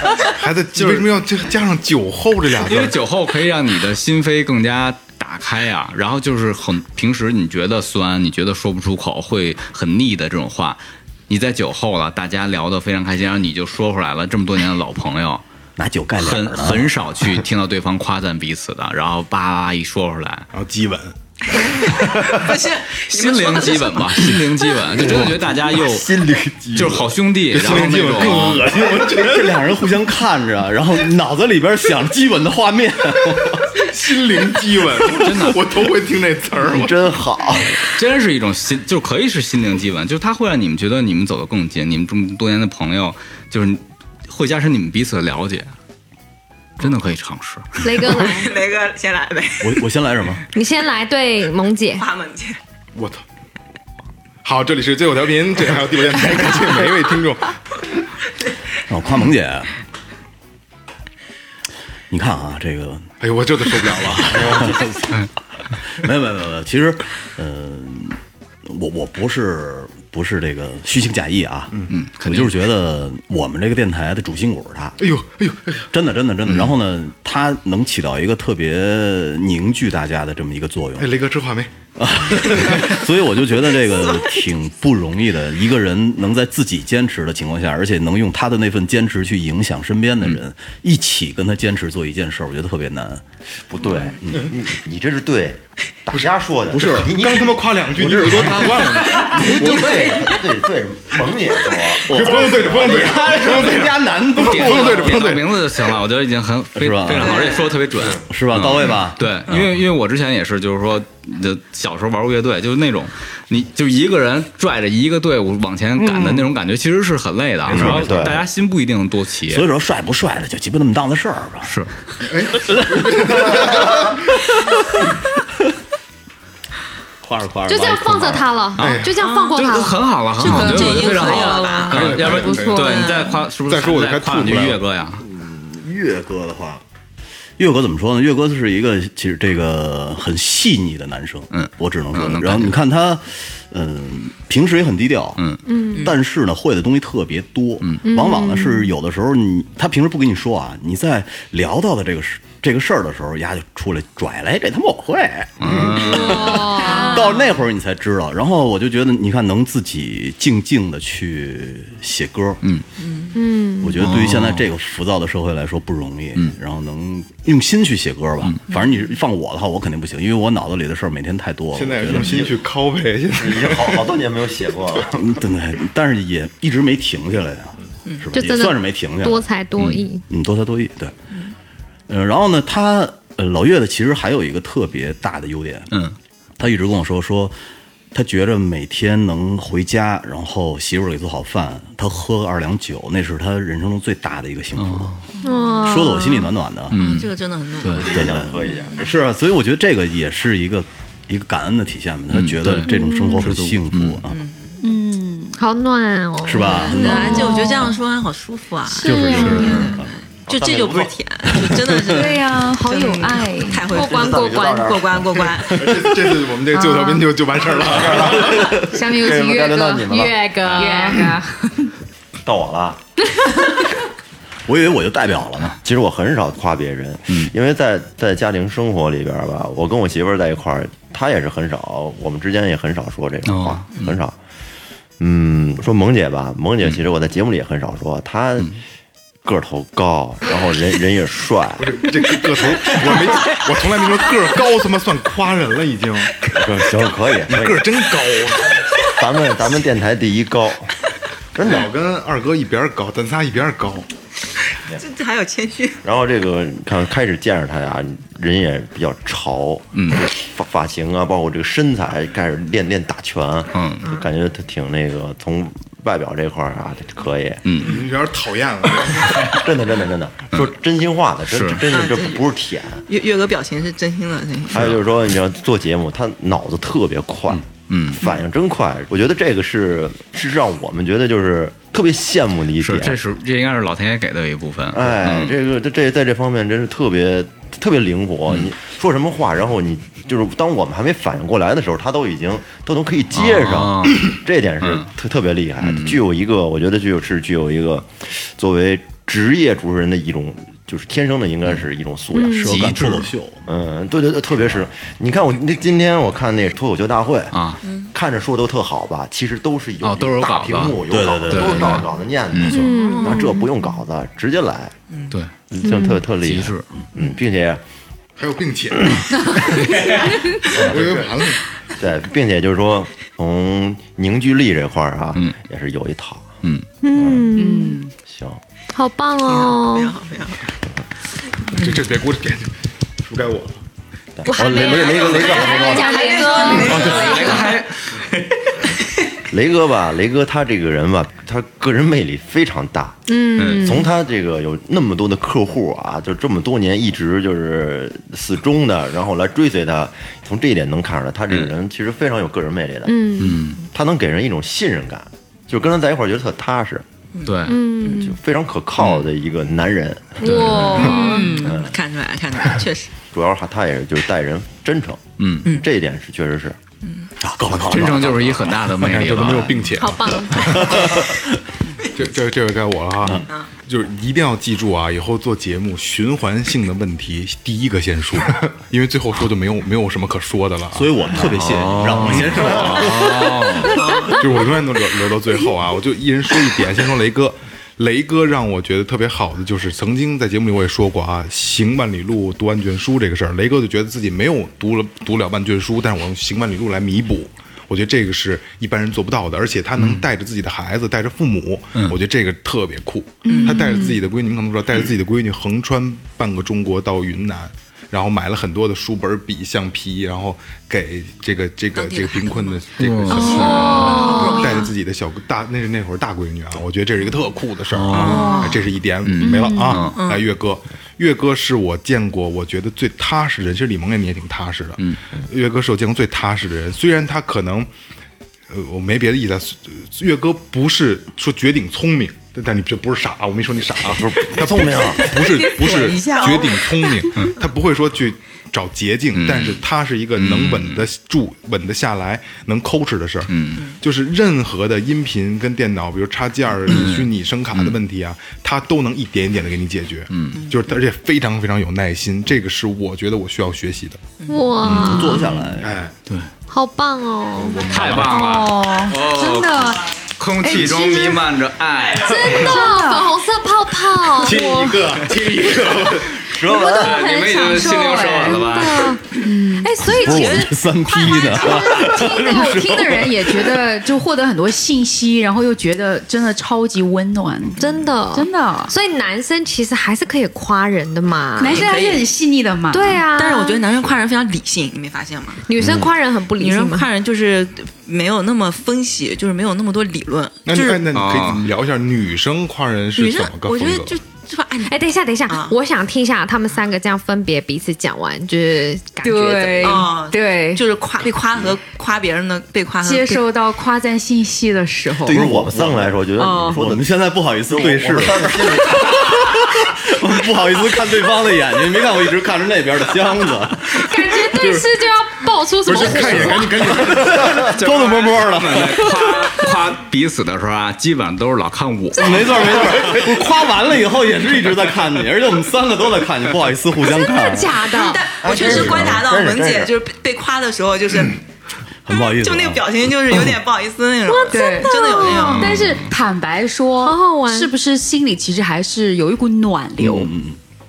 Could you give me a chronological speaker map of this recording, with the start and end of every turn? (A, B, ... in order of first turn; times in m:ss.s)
0:00.4-0:03.0 A
0:02.6-0:15.4 B
0:15.8-0:16.9 C
0:16.2-0:20.5 B
0:20.5-0:21.2 A
0:21.5-0:24.5 D
0:23.1-0:26.2 B
0:24.9-0:27.1 E
0:26.7-0:28.6 B
0:27.5-0:29.8 A
0:28.3-0:33.8 C
0:33.7-0:37.0 A
0:35.1-0:35.6 B
0:36.6-0:37.8 E
0:37.9-0:45.7 B
0:46.8-0:47.8 B
0:47.8-0:48.5 F
0:48.1-0:49.9 D
0:49.6-0:50.4 C
0:50.5-0:52.0 F
0:51.9-0:52.6 D
0:52.9-0:53.2 A
0:54.4-0:57.6 A
0:58.9-0:59.7 C
1:02.1-1:03.1 C
1:03.2-1:04.8 A
1:04.2-1:05.2 C
1:04.5-1:04.8 E
1:06.0-1:15.0 C
1:11.9-1:12.6 B
1:15.0-1:15.9 A
1:15.9-1:21.1 C
1:16.5-1:16.7 B
1:21.0-1:21.7 A
1:22.0-1:33.2 C
1:23.7-1:24.5 D
1:33.7-1:37.6 E
1:33.8-1:34.1 D
1:36.7-1:37.1 C
1:37.1-1:40.0 A
1:38.0-1:40.2 C
1:38.8-1:39.2 B
1:39.3-1:43.2 E
1:42.1-1:45.3 C
1:42.1-1:45.6 A
1:43.4-1:59.6 B
1:46.8-1:47.4 C
1:47.1-1:47.8 D
1:48.3-1:49.7 C
1:48.8-1:49.7 D
1:56.0-1:56.5 C
1:57.7-1:58.4 C
1:57.8-1:58.4 E
1:59.5-2:01.7 C
2:01.6-2:01.9 B
2:02.3-2:04.2 A
2:02.6-2:04.8 C
2:07.2-2:08.5 C
2:07.7-2:13.3 F
2:08.8-2:15.2 B
2:08.8-2:09.2 A
2:09.2-2:12.4 D
2:10.5-2:13.0 G
2:11.9-2:13.0 A
2:13.5-2:14.8 A
2:15.2-2:16.8 C
2:17.6-2:25.4 C
2:21.5-2:22.8 B
2:25.6-2:26.0 F
2:26.0-2:42.6 C
2:28.0-2:28.9 F
2:35.6-2:36.7 B
2:36.1-2:37.3 F
2:36.8-2:37.3 G
2:43.0-2:43.4 D
2:43.3-2:44.0 F
2:43.8-2:52.4 C
2:44.0-2:44.6 B
2:48.7-2:49.0 D
2:51.7-2:54.1 A
2:52.1-2:52.6 E
2:53.3-2:55.4 E
2:55.1-2:59.5 C
2:58.3-3:00.2 F
2:59.8-3:00.0 B
3:00.3-3:01.1 C
3:02.1-3:05.9 C
3:05.9-3:06.2 B
3:06.6-3:07.5 C
3:08.1-3:15.2 C
3:14.8-3:15.2 B
3:15.4-3:16.5 F
3:15.8-3:17.0 C
3:16.9-3:18.0 B
3:16.9-3:18.1 D
3:18.0-3:19.1 E
3:18.0-3:24.4 C
3:22.3-3:24.2 B
3:22.9-3:23.3 F
3:24.3-3:24.8 D
3:24.8-3:25.6 G
3:25.6-3:27.9 F
3:26.4-3:27.5 C
3:26.7-3:35.9 D
3:27.0-3:27.7 G
3:29.0-3:30.1 C
3:29.0-3:29.8 G
3:29.0-3:29.9 F
3:30.5-3:31.1 E
3:32.1-3:33.8 G
3:32.9-3:35.0 F
3:33.9-3:35.4 E
3:35.8-3:38.7 A
3:36.7-3:37.3 G
3:37.8-3:40.8 E
3:38.7-3:41.9 G
3:40.0-3:41.3 F
3:42.4-3:43.0 E
3:43.5-3:43.7 F
3:44.7-3:45.8 C
3:45.8-3:54.4 E
3:53.4-3:53.9 B
3:55.2-3:58.8 E
3:59.4-4:02.0 E
4:01.8-4:06.3 A
4:02.4-4:04.4 D
4:06.6-4:07.9 E
4:07.5-4:08.7 A
4:09.1-4:10.9 E
4:11.5-4:11.9 E
4:11.6-4:14.1 A
4:14.6-4:16.0 D
4:16.0-4:27.6 E
4:19.9-4:20.2 B
4:23.7-4:24.0 B
4:24.0-4:24.3 D
4:27.6-4:28.0 B
4:27.8-4:29.7 A
4:29.5-4:33.0 E
4:31.5-4:31.8 B
4:31.9-4:32.5 D
4:33.1-4:34.9 D
4:34.7-4:37.6 E
4:37.9-4:38.2 B
4:38.1-4:43.2 E
4:42.8-4:45.6 B
4:44.9-5:02.9 E
4:53.3-4:55.1 B
4:55.8-4:56.2 B
5:02.3-5:02.7 F
5:02.6-5:03.6 C
5:02.6-5:03.3 B
5:03.6-5:07.5 E
5:07.5-5:07.8 B
5:07.8-5:08.1 D
5:08.1-5:14.9 E
5:10.0-5:12.8 B
5:11.1-5:12.0 C
5:12.7-5:13.6 F
5:12.8-5:13.6 D
5:15.1-5:15.4 D
5:15.7-5:17.8 E
5:15.8-5:16.2 F
5:16.4-5:16.8 B
5:18.4-5:19.7 A
5:20.7-5:21.6 A
5:20.7-5:21.3 E
5:21.9-5:26.6 E
5:27.0-5:28.0 F
5:27.1-5:27.5 E
5:27.6-5:28.1 G
5:28.2-5:28.6 E
5:28.9-5:30.2 F
5:29.4-5:30.6 D
5:31.7-5:32.1 D
5:31.8-5:33.8 A
5:34.4-5:36.3 E
5:34.5-5:37.7 F
5:35.0-5:37.7 D
5:36.3-5:37.3 G
5:36.8-5:38.5 B
5:39.5-5:43.2 E
5:43.3-5:44.1 F
5:43.6-5:44.0 B
5:43.7-5:53.1 E
5:53.0-5:53.6 F
5:53.4-5:53.8 B
5:53.9-5:57.0 E
5:57.3-5:58.2 D
5:57.4-5:57.8 B
5:57.6-5:58.4 F
5:58.1-6:01.0 E
5:59.0-5:59.3 B
6:00.4-6:01.6 F
6:00.4-6:01.1 B
6:00.9-6:03.1 D
6:01.0-6:01.7 G
6:01.6-6:01.9 E
6:03.3-6:06.8 E
6:05.4-6:05.6 B
6:07.0-6:07.3 D
6:07.4-6:08.8 C
6:07.7-6:08.1 A
6:07.8-6:10.1 B
6:08.9-6:10.9 A
6:10.0-6:11.2 F
6:10.5-6:11.4 C
6:12.2-6:21.6 A
6:20.9-6:23.2 C
6:21.4-6:24.0 B
6:22.4-6:23.0 A
6:23.2-6:24.4 D
6:24.3-7:07.9 A
6:40.0-6:40.2 B
6:43.4-6:44.2 G
6:43.5-6:43.8 D
6:51.9-6:54.9 D
6:53.0-6:53.6 B
6:53.3-6:54.8 G
6:54.1-6:54.7 F
6:57.9-6:58.6 B
6:58.1-6:58.9 D
6:58.2-6:58.8 G
6:59.2-7:00.2 B
6:59.4-7:00.1 G
7:00.1-7:00.4 D
7:08.7-7:34.2 A
7:14.0-7:15.3 E
7:15.0-7:16.7 G
7:15.0-7:16.8 D
7:19.3-7:19.8 B
7:20.4-7:21.1 B
7:23.5-7:23.8 B
7:26.9-7:28.0 B
7:30.3-7:30.6 B
7:34.4-7:34.7 D
7:34.5-7:35.5 F
7:34.8-7:35.6 B
7:34.8-7:35.9 C
7:35.8-7:36.1 A
7:36.7-7:37.9 F
7:37.5-7:38.4 A
7:37.9-7:42.9 B
7:38.1-7:40.0 G
7:40.6-7:41.4 G
7:40.7-7:41.4 F
7:42.2-7:45.0 F
7:42.4-7:43.3 G
7:44.4-7:49.2 B
7:44.4-7:45.3 C
7:45.2-7:46.2 A
7:46.6-7:47.0 E
7:46.6-7:52.7 F
7:46.6-7:48.7 G
7:49.4-7:49.9 G
7:50.1-7:53.8 C
7:51.6-7:58.9 G
7:57.8-8:01.9 F
8:01.6-8:03.2 G
8:01.6-8:02.2 D
8:02.9-8:03.8 F
8:03.3-8:05.6 D
8:05.6-8:07.1 F
8:05.8-8:06.1 E
8:06.6-8:11.0 D
8:10.6-8:14.1 A
8:11.1-8:11.6 B
8:13.2-8:15.8 D
8:14.8-8:20.1 F
8:19.2-8:20.8 G
8:19.8-8:23.4 D
8:23.0-8:25.5 G
8:25.2-8:29.2 E
8:25.3-8:34.8 C
8:26.4-8:26.8 G
8:33.9-8:37.1 F
8:35.8-8:38.9 A
8:37.1-8:39.8 C
8:37.8-8:43.0 B
8:42.1-8:47.8 C
8:42.2-8:43.1 F
8:47.0-8:48.9 F
8:47.9-8:51.4 D
8:48.4-8:49.9 E
8:48.7-8:49.2 C
8:52.0-8:53.5 C
8:52.1-8:55.8 D
8:54.2-8:55.7 F
8:54.5-9:00.3 G
8:55.3-8:56.1 B
8:57.0-8:57.7 F
9:00.0-9:00.6 C